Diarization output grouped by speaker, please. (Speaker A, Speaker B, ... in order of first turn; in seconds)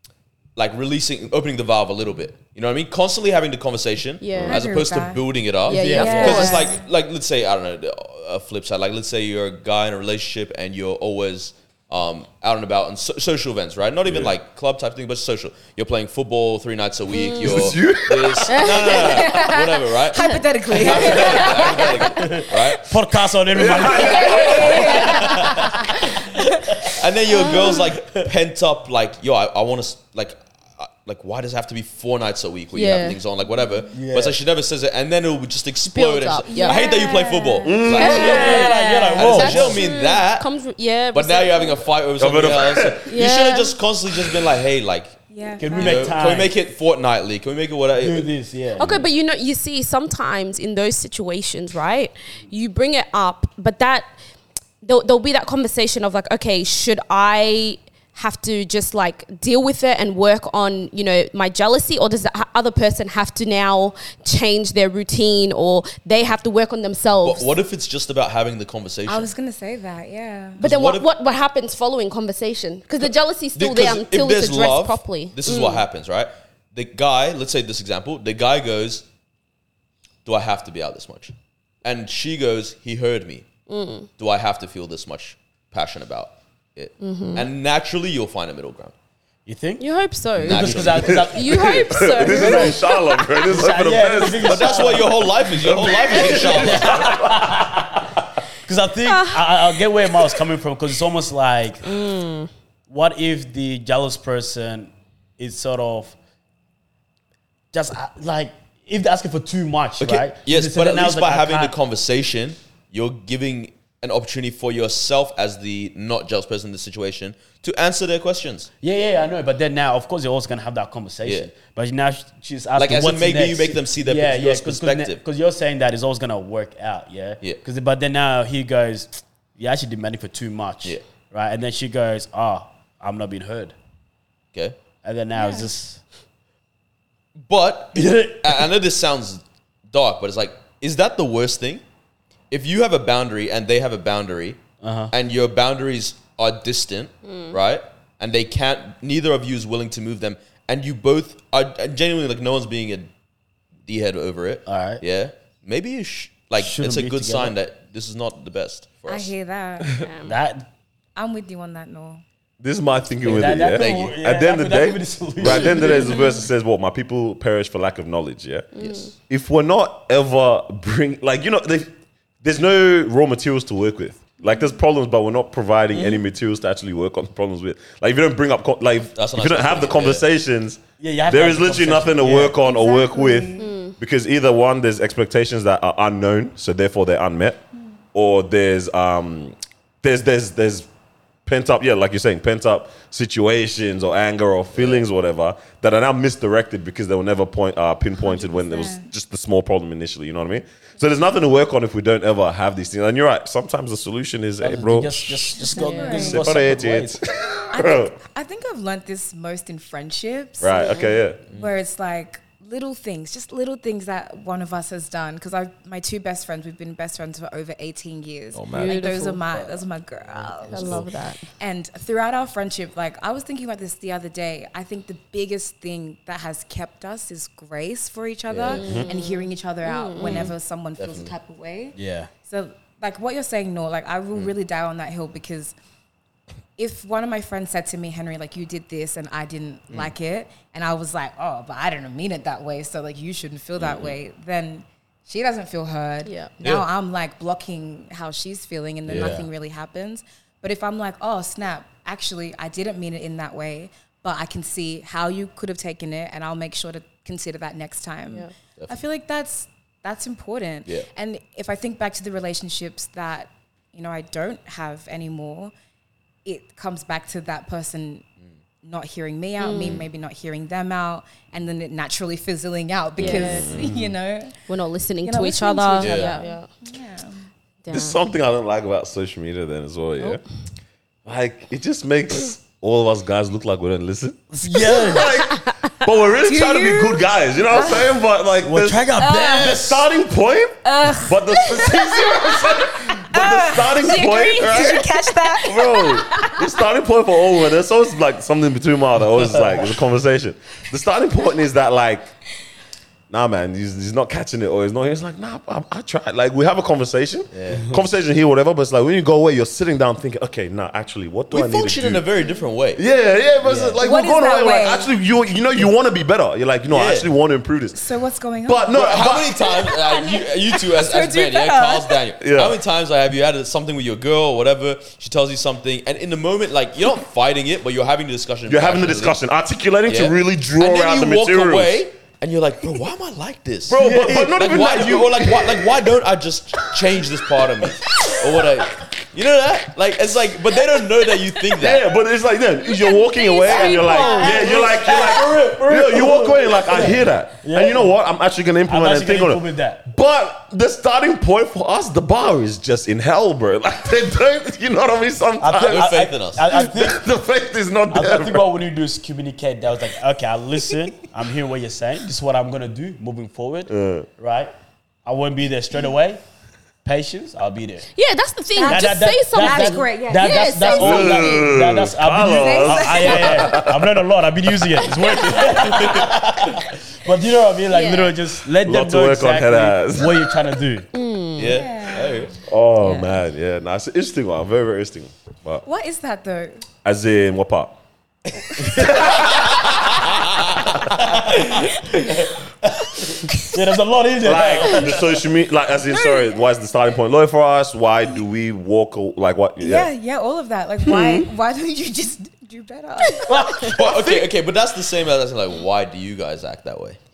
Speaker A: 0.6-22.8, 24.3-25.7, 26.9-40.5, 41.1-45.1, 45.7-48.3, 67.2-69.3, 70.6-71.0, 73.5-79.0, 80.2-83.5, 84.2-88.9, 90.4-91.3, 94.4-97.0, 110.0-118.7, 121.2-121.5, 122.8-125.2, 134.5-134.8, 137.4-141.8, 142.5-153.1, 153.8-159.3, 163.7-164.2, 168.8-169.1, 179.1-180.2, 228.5-228.8, 230.2-231.4, 243.8-244.2, 246.6-246.9, 249.1-249.4, 276.0-276.4, 307.5-307.9, 311.5-313.0, 313.6-313.9, 316.9-317.3, 318.9-329.4, 330.1-342.0, 355.9-356.6, 375.7-376.3, 381.6-382.6, 389.0-391.8, 403.9-407.2
Speaker B: 4.2-4.6, 5.7-6.8, 17.1-17.7, 18.5-19.2, 27.3-27.8, 32.7-33.2, 35.8-36.9, 38.0-41.8, 43.0-43.8, 48.8-54.1, 54.8-67.5, 70.6-75.8, 83.7-84.1, 87.0-87.5, 89.8-93.3, 99.0-99.8, 101.8-102.5, 147.2-147.6, 160.0-160.3, 165.4-166.5, 168.7-169.1, 175.9-176.2, 183.6-183.9, 205.6-206.3, 210.7-211.2, 218.7-219.4, 220.7-221.4, 228.7-230.6, 246.2-246.5, 269.6-270.1, 273.2-273.8, 274.7-276.7, 277.8-278.2, 294.0-295.5, 342.9-345.4, 368.1-371.6, 375.1-375.6, 377.9-378.4, 381.1-381.9, 383.0-383.3, 403.3-403.9
Speaker C: 4.4-5.3, 5.9-6.8, 18.9-22.4, 23.7-26.7, 36.5-38.7, 45.3-46.1, 69.1-70.6, 135.3-135.7, 159.1-160.1, 161.2-162.2, 182.6-183.7, 198.2-199.0, 205.6-206.6, 207.7-235.7, 236.8-265.7, 266.4-268.2, 268.8-274.6, 275.2-277.5, 286.4-288.1, 289.2-289.9, 290.8-296.7, 314.0-315.1, 317.9-322.2, 343.5-344.8, 368.8-371.6, 372.5-373.8, 381.6-382.5, 385.8-386.9, 396.1-396.6, 399.8-403.8
Speaker D: 5.7-6.6, 20.9-21.2, 22.1-26.9, 33.9-34.4, 38.1-39.8, 45.6-46.5, 48.0-49.1, 89.5-89.8, 90.4-92.8, 93.4-95.3, 96.2-102.0, 102.9-106.2, 107.7-111.8, 118.8-133.8, 135.0-136.0, 137.9-138.7, 144.8-145.1, 154.7-155.0, 156.6-157.6, 160.2-160.7, 163.2-166.1, 181.0-182.6, 204.6-207.2, 219.5-221.0, 231.9-232.3, 249.1-249.5, 284.5-285.3, 288.6-290.0, 333.9-334.6, 338.0-338.3, 343.8-348.1, 348.9-350.0, 355.6-357.2, 358.1-364.7, 365.2-366.4, 367.0-368.1, 368.8-381.1, 388.7-389.2, 391.0-395.4, 403.4-404.5
Speaker E: 14.0-14.3, 17.4-19.4, 23.5-25.2, 37.6-38.4, 42.2-43.2, 90.9-95.0, 95.5-98.1, 159.8-160.1, 162.6-171.9, 172.4-187.6, 188.1-190.9, 191.4-205.6, 206.1-208.2, 210.6-211.4, 218.5-219.0, 228.8-229.1, 273.2-274.1, 277.9-280.4, 281.2-302.3, 303.3-312.2, 313.0-318.0, 318.6-319.6, 322.4-322.8, 328.7-332.0, 333.9-335.9, 341.8-356.1, 356.7-358.7, 363.9-364.3, 370.9-374.1, 378.8-380.5, 382.6-385.8, 387.0-388.0, 388.8-390.1, 394.4-400.1, 401.0-401.5